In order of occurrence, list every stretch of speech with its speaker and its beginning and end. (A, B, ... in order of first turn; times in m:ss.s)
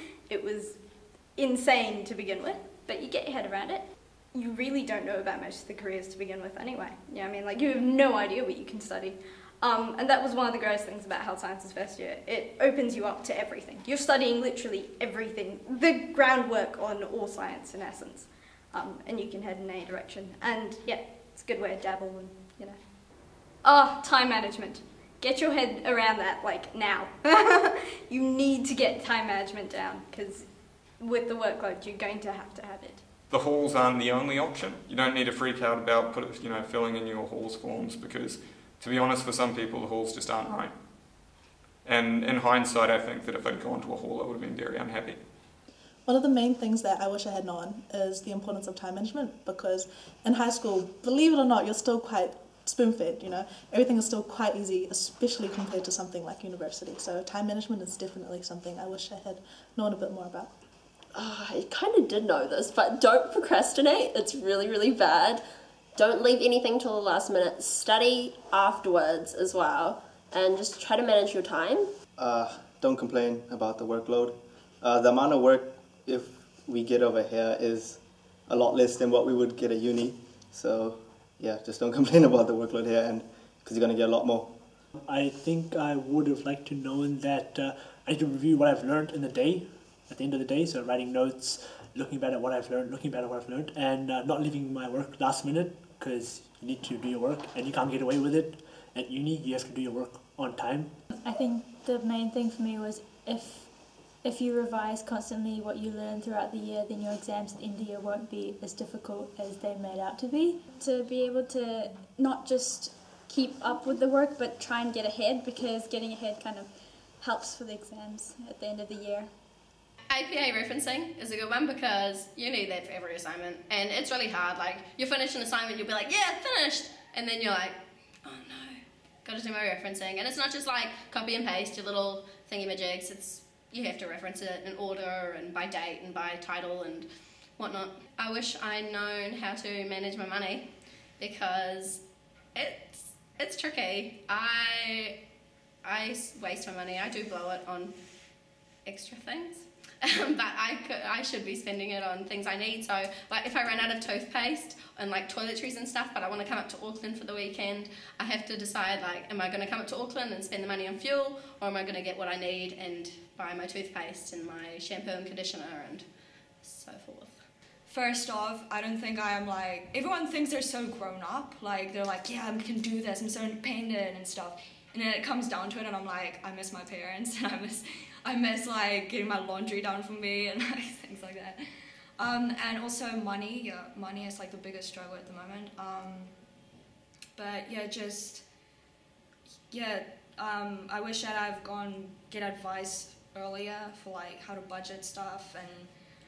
0:00.3-0:00.7 A
0:01.4-0:03.8 A
0:04.3-0:22.7 A
0:23.6-0:27.0 A
0:28.1-0:30.3 A
0:31.0-0:32.9 A
0:33.3-0:41.2 B
0:41.8-0:45.2 B
0:46.0-1:00.5 C
1:01.1-1:05.4 D
1:06.0-1:11.9 D
1:12.2-1:24.7 E
1:24.9-1:41.0 F
1:41.1-1:50.7 G
1:50.7-1:59.3 H
2:00.1-2:17.1 I
2:17.6-2:20.6 I
2:21.2-2:22.0 I
2:22.5-2:25.2 I
2:25.8-2:27.9 I
2:28.8-2:46.0 I
2:46.6-2:47.4 I
2:47.9-3:01.6 J
3:02.2-3:06.4 J
3:07.3-3:08.4 J
3:09.7-3:15.9 J